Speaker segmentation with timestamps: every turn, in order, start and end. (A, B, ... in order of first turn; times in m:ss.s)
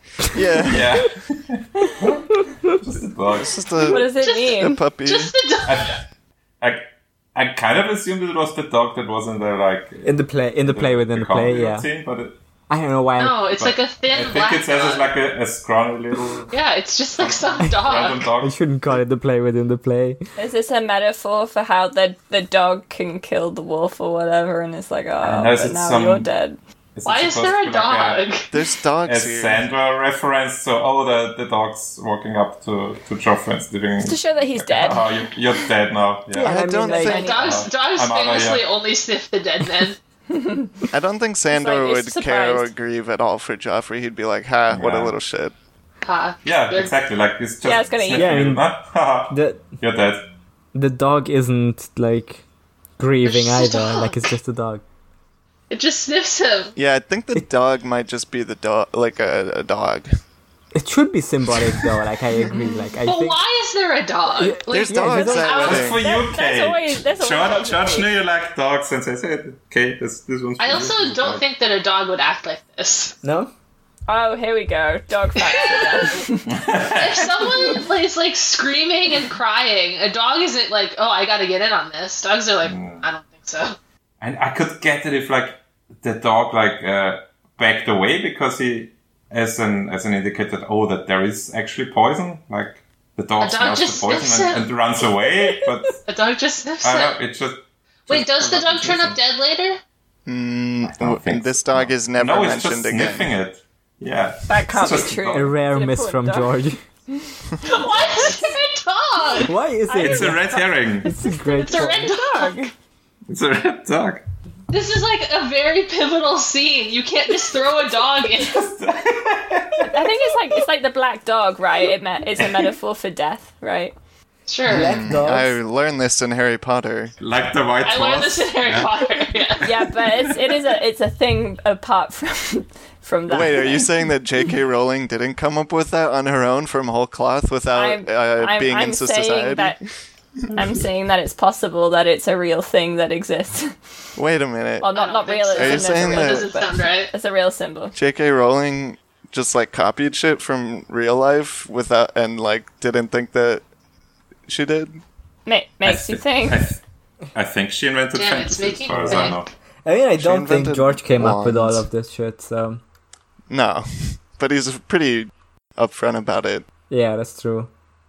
0:00.3-0:01.0 A
0:00.6-0:03.7 B
0:03.3-0:05.3 A
0:03.8-0:04.8 C
0:04.2-0:06.0 D
0:05.6-0:06.0 B
0:06.6-0:12.4 B
0:10.0-0:11.9 E
0:12.7-0:13.4 E
0:13.2-0:15.1 D
0:13.6-0:16.5 B
0:16.5-0:18.3 D
0:17.2-0:19.0 B
0:18.4-0:20.2 E
0:20.4-0:26.6 C
0:25.2-0:26.3 B
0:27.0-0:28.2 B
0:27.0-0:28.6 D
0:28.5-0:29.6 A
0:29.0-0:36.5 B
0:34.0-0:35.6 C
0:36.3-0:37.2 E
0:36.4-0:37.6 A
0:36.9-0:37.4 C
0:37.0-0:40.0 D
0:37.4-0:38.6 B
0:40.3-0:40.7 C
0:40.9-0:45.5 A
0:41.5-0:42.7 C
0:44.7-0:45.1 B
0:46.0-0:46.9 D
0:46.4-0:50.3 B
0:47.6-0:48.3 C
0:48.2-0:48.7 E
0:49.3-0:49.6 E
0:50.7-0:52.4 E
0:53.0-0:54.8 E
0:53.2-0:54.3 D
0:55.7-0:56.7 D
0:56.8-1:00.1 A
1:00.7-1:03.4 E
1:02.5-1:02.9 C
1:03.0-1:06.0 D
1:04.3-1:05.7 E
1:04.7-1:06.0 A
1:05.5-1:11.4 B
1:06.0-1:08.1 C
1:10.6-1:13.2 D
1:13.2-1:13.5 E
1:14.1-1:16.5 C
1:15.6-1:16.1 D
1:16.4-1:17.8 B
1:16.9-1:23.8 D
1:22.6-1:23.0 B
1:24.2-1:36.0 B
1:33.4-1:34.7 D
1:36.0-1:37.2 D
1:36.8-1:39.2 B
1:38.1-1:39.8 D
1:40.3-1:43.3 A
1:40.9-1:45.5 B
1:44.5-1:46.6 C
1:45.3-1:46.8 E
1:47.6-1:49.5 D
1:48.0-1:48.4 B
1:49.4-1:50.5 E
1:49.9-1:52.7 C
1:50.0-1:51.1 B
1:51.0-1:52.1 E
1:51.6-1:52.7 D
1:53.3-1:54.2 B
1:54.7-1:58.6 D
1:58.2-2:00.1 B
1:59.8-2:03.9 C
2:04.5-2:05.0 D
2:04.7-2:07.1 A
2:04.7-2:05.6 E
2:07.2-2:09.6 B
2:07.8-2:09.7 D
2:09.6-2:13.9 C
2:13.3-2:19.7 A
2:17.7-2:19.8 C
2:20.5-2:23.8 C
2:24.2-2:24.9 A
2:24.8-2:27.9 C
2:24.9-2:27.1 D
2:25.6-2:26.5 A
2:27.9-2:33.6 A
2:34.5-2:35.0 A
2:35.4-2:36.7 C
2:35.8-2:36.8 B
2:37.3-2:39.5 B
2:38.1-2:39.4 D
2:39.0-2:39.3 E
2:39.8-2:42.8 E
2:40.2-2:41.8 A
2:43.5-2:46.6 A
2:46.9-2:47.7 E